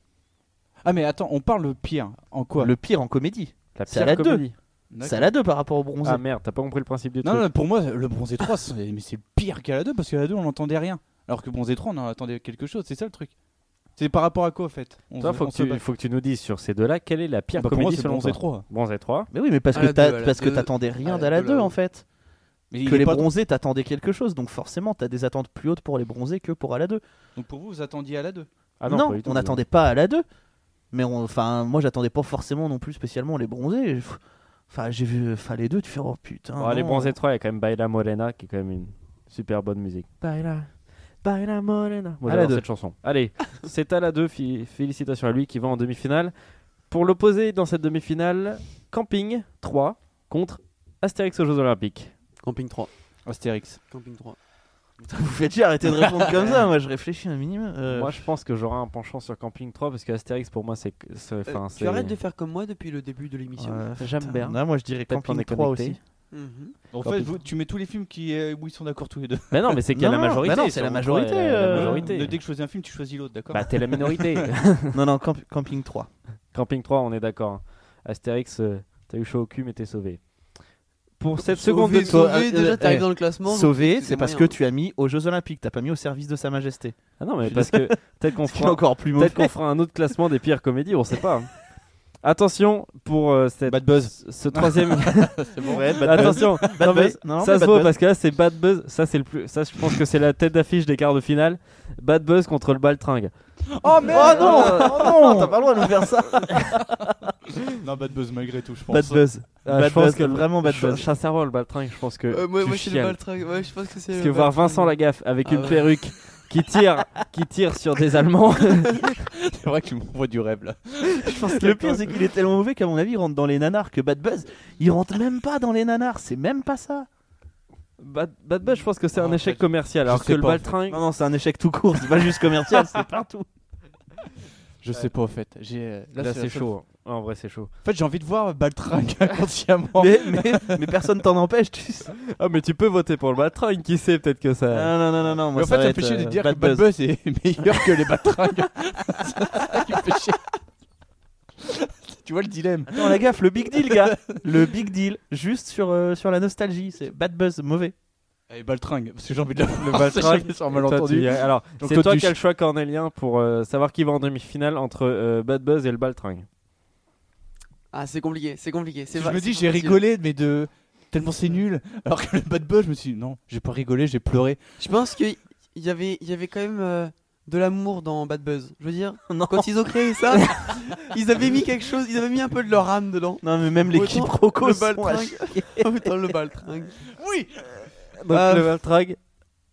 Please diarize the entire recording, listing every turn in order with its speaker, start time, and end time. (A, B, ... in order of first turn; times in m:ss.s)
0:00.8-0:02.7 A
0:02.6-0:04.4 B
0:03.7-0:04.5 C
0:04.9-0:05.3 A
0:05.0-0:06.2 B
0:06.0-0:07.5 C
0:07.2-0:13.3 A
0:14.0-0:15.8 A
0:15.2-0:19.3 C
0:17.5-0:18.6 A
0:19.3-0:22.0 B
0:19.7-0:21.7 D
0:22.7-0:23.3 A
0:22.8-0:27.0 B
0:27.4-0:28.5 A
0:28.8-0:29.6 C
0:28.8-0:30.2 B
0:30.9-0:37.1 B
0:36.6-0:46.3 C
0:42.2-0:42.6 B
0:46.9-0:52.1 C
0:52.4-0:52.9 D
0:53.2-0:53.8 A
0:53.9-0:54.4 D
0:55.0-0:58.2 B
0:57.9-1:02.2 C
1:01.5-1:03.8 D
1:03.6-1:06.0 B
1:04.0-1:06.0 C
1:06.3-1:06.8 D
1:06.9-1:09.8 A
1:07.0-1:07.4 C
1:09.5-1:12.4 C
1:09.9-1:12.1 B
1:11.7-1:14.4 A
1:13.5-1:15.0 C
1:14.9-1:16.1 B
1:16.5-1:20.3 C
1:21.2-1:22.2 C
1:21.5-1:24.6 D
1:21.6-1:29.5 B
1:27.2-1:31.5 C
1:32.2-1:35.4 C
1:33.7-1:36.6 A
1:35.6-1:37.9 B
1:36.0-1:43.3 C
1:43.7-1:46.1 A
1:44.0-1:47.3 B
1:44.1-1:45.0 C
1:44.3-1:44.9 D
1:47.8-1:49.2 A
1:48.9-1:51.1 B
1:49.6-1:53.2 C
1:52.3-1:56.0 D
1:54.1-1:59.0 C
1:59.2-2:01.3 A
2:01.2-2:02.0 C
2:01.2-2:07.1 B
2:08.0-2:11.0 C
2:09.1-2:10.7 A
2:10.9-2:13.4 B
2:14.8-2:16.7 A
2:16.2-2:17.7 C
2:17.8-2:20.9 A
2:19.9-2:22.1 B
2:22.3-2:24.9 C
2:24.7-2:26.9 B
2:25.5-2:30.5 A
2:31.6-2:33.2 A
2:32.9-2:37.9 B
2:33.7-2:34.4 A
2:38.5-2:42.3 A
2:39.8-2:46.4 C
2:47.9-2:50.0 D
2:49.1-2:54.6 A
2:54.8-3:07.0 D
2:59.3-3:00.7 B
3:03.4-3:06.1 B
3:07.2-3:07.9 A
3:08.2-3:09.2 C
3:08.3-3:08.7 D